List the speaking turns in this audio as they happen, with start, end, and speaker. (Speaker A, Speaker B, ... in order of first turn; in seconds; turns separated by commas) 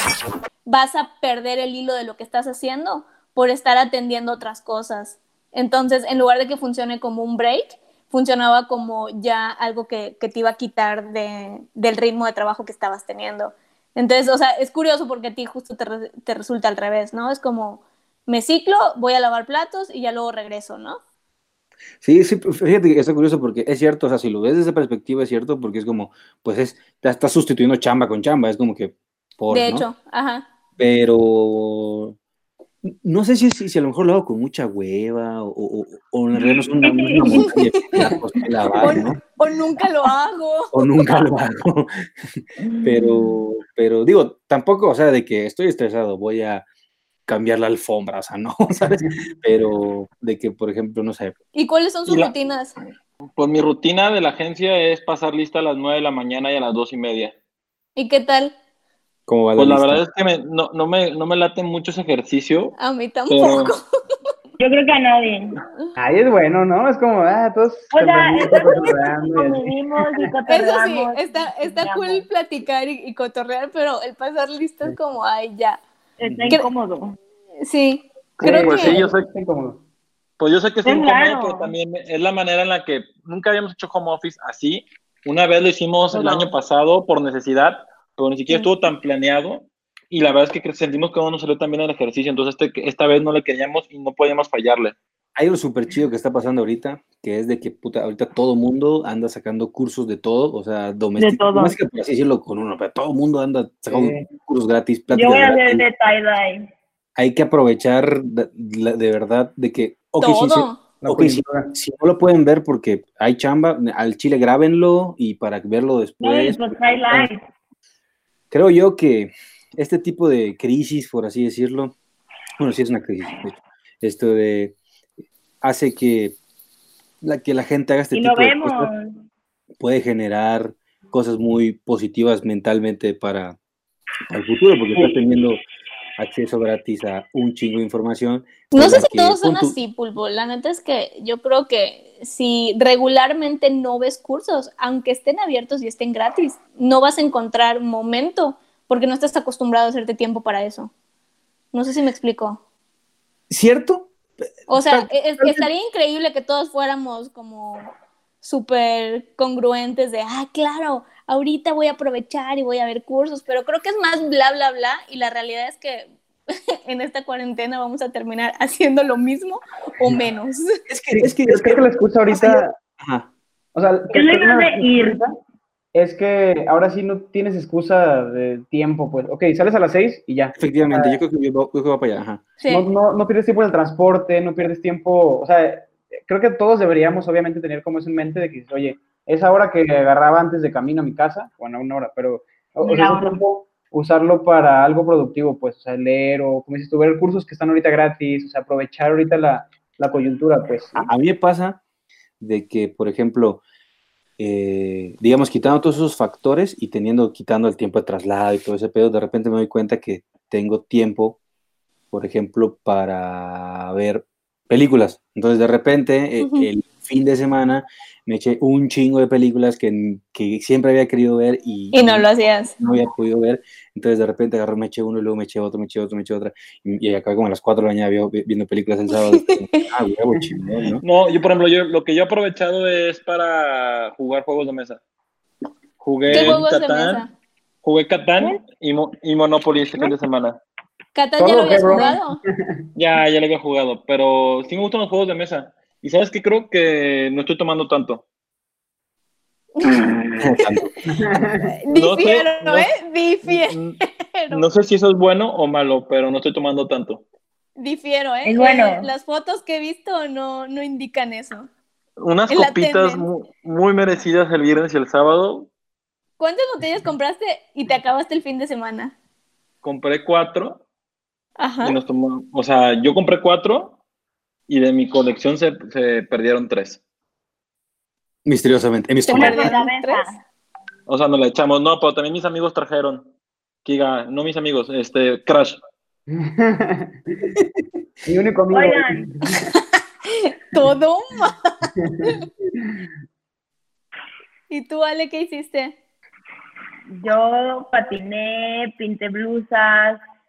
Speaker A: 0.7-21.0, Speaker B: 22.0-29.9, Speaker A: 29.5-30.5, Speaker B: 30.8-32.2, Speaker B: 32.9-39.2, Speaker C: 36.4-37.5, Speaker A: 37.3-38.2, Speaker A: 38.8-40.9, Speaker B: 40.7-46.6, Speaker C: 42.6-43.3, Speaker B: 47.3-51.4, Speaker A: 51.5-52.7, Speaker D: 52.1-52.3, Speaker D: 53.4-57.3, Speaker A: 58.0-58.5, Speaker B: 59.3-60.0, Speaker D: 59.5-62.8, Speaker A: 62.8-63.8, Speaker D: 63.3-63.8, Speaker C: 64.6-65.6, Speaker E: 66.0-69.7, Speaker C: 67.9-72.2, Speaker A: 70.5-75.8, Speaker C: 76.2-77.2, Speaker B: 76.3-76.5, Speaker A: 77.6-79.0, Speaker D: 78.4-79.3, Speaker E: 78.4-79.8, Speaker D: 80.4-95.0, Speaker C: 80.8-81.7, Speaker C: 86.1-86.5, Speaker B: 95.4-105.8, Speaker C: 101.2-101.8, Speaker E: 103.9-104.3, Speaker C: 105.1-106.7, Speaker B: 107.2-117.3, Speaker A: 110.2-110.8, Speaker E: 111.0-111.7, Speaker C: 116.2-117.4, Speaker B: 118.5-122.0, Speaker B: 122.6-124.8, Speaker B: 125.6-126.4, Speaker B: 127.2-128.9, Speaker C: 128.1-129.2, Speaker B: 129.8-133.6, Speaker B: 134.3-135.6, Speaker B: 136.2-139.8, Speaker A: 138.7-150.9, Speaker A: 151.7-152.6, Speaker B: 153.5-154.1, Speaker B: 154.7-155.7, Speaker A: 154.7-166.1, Speaker A: 166.9-170.6, Speaker B: 170.9-173.3, Speaker E: 171.1-172.7, Speaker E: 173.8-175.3, Speaker C: 174.1-175.2, Speaker E: 175.9-181.2, Speaker B: 180.6-182.5, Speaker A: 182.6-182.9, Speaker E: 182.7-201.1, Speaker C: 192.8-193.4, Speaker B: 200.9-201.8, Speaker B: 202.4-203.6, Speaker B: 204.4-211.4, Speaker B: 212.1-222.3, Speaker A: 216.4-216.7, Speaker A: 221.9-222.7, Speaker B: 222.8-231.0, Speaker A: 229.6-229.9, Speaker D: 231.0-235.0, Speaker D: 236.0-237.2, Speaker A: 236.3-237.3, Speaker B: 236.3-236.6, Speaker D: 237.8-240.6, Speaker A: 241.1-242.4, Speaker E: 241.4-242.8, Speaker D: 242.9-248.2, Speaker A: 249.8-250.9, Speaker B: 250.4-250.9, Speaker E: 251.1-251.7, Speaker A: 251.8-254.7, Speaker D: 251.9-252.9, Speaker D: 253.4-254.0, Speaker D: 254.5-257.2, Speaker A: 257.8-261.7, Speaker C: 258.4-259.1, Speaker D: 262.2-265.7, Speaker A: 262.5-263.2, Speaker A: 266.4-269.1, Speaker D: 269.8-270.8, Speaker A: 271.6-272.0, Speaker D: 271.8-274.0, Speaker D: 274.7-277.0, Speaker B: 278.4-279.7, Speaker A: 279.2-280.2, Speaker C: 279.4-280.4, Speaker D: 281.1-283.3, Speaker D: 283.9-285.8, Speaker E: 286.3-287.5, Speaker E: 288.2-289.8, Speaker C: 288.7-289.3, Speaker A: 289.7-291.7, Speaker E: 292.0-292.4, Speaker A: 294.7-295.9, Speaker C: 297.1-300.2